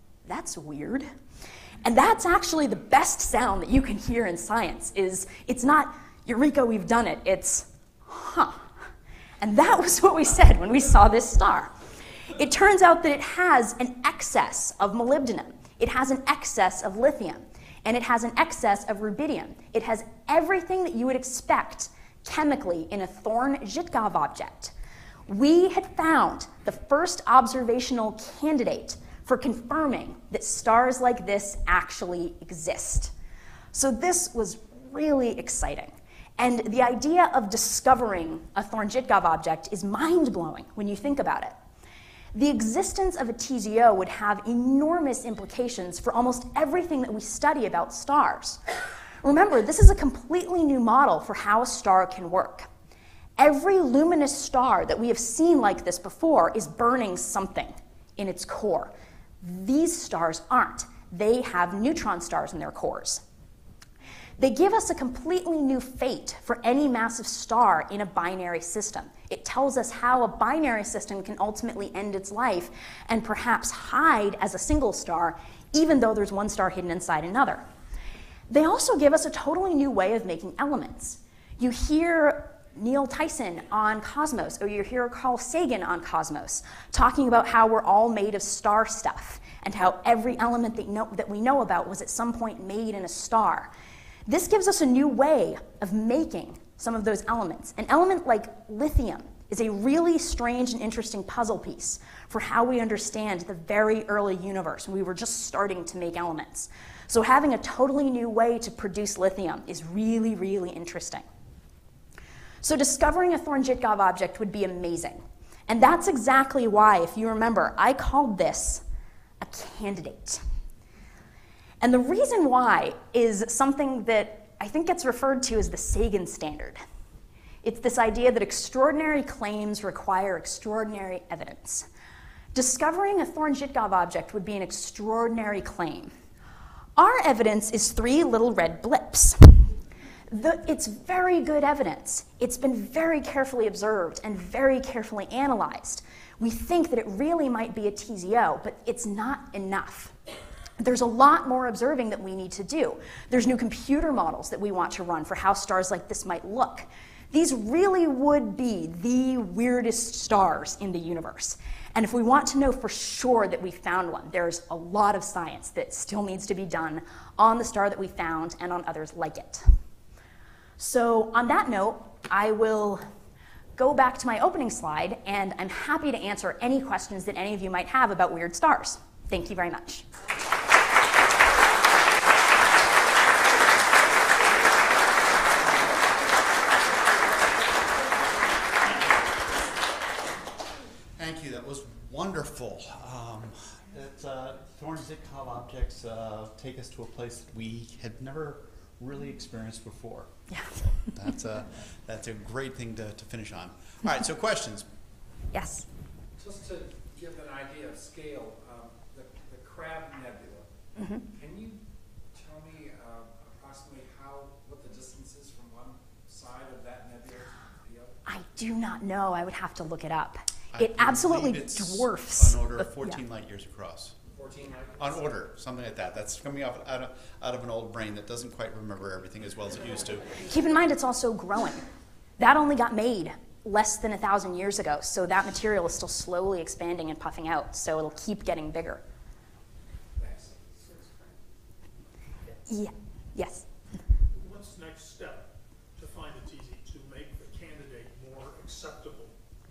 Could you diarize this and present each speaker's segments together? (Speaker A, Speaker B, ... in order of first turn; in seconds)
Speaker A: 0.3-1.1, 1.8-8.6, 9.4-11.7, 12.3-24.7, 25.3-33.1, 33.7-41.5, 42.3-48.6, 49.2-52.7, 53.4-63.2, 64.4-77.6, 78.5-93.7, 94.3-111.2, 112.6-118.8, 119.4-120.4, 121.8-126.8, 127.6-131.9, 132.5-136.1, 137.0-139.4, 140.3-150.1, 150.8-169.7, 170.8-173.0, 173.8-180.1, 200.5-200.8, 205.5-205.9, 211.0-211.2, 218.3-223.2, 230.4-231.8, 232.4-239.0, 242.7-243.7
Speaker B: 191.2-200.3, 201.1-204.8, 220.7-224.2, 225.0-230.3
Speaker C: 206.4-210.7, 211.2-211.8, 212.3-218.2, 224.3-225.2, 240.2-241.1
Speaker D: 244.3-249.3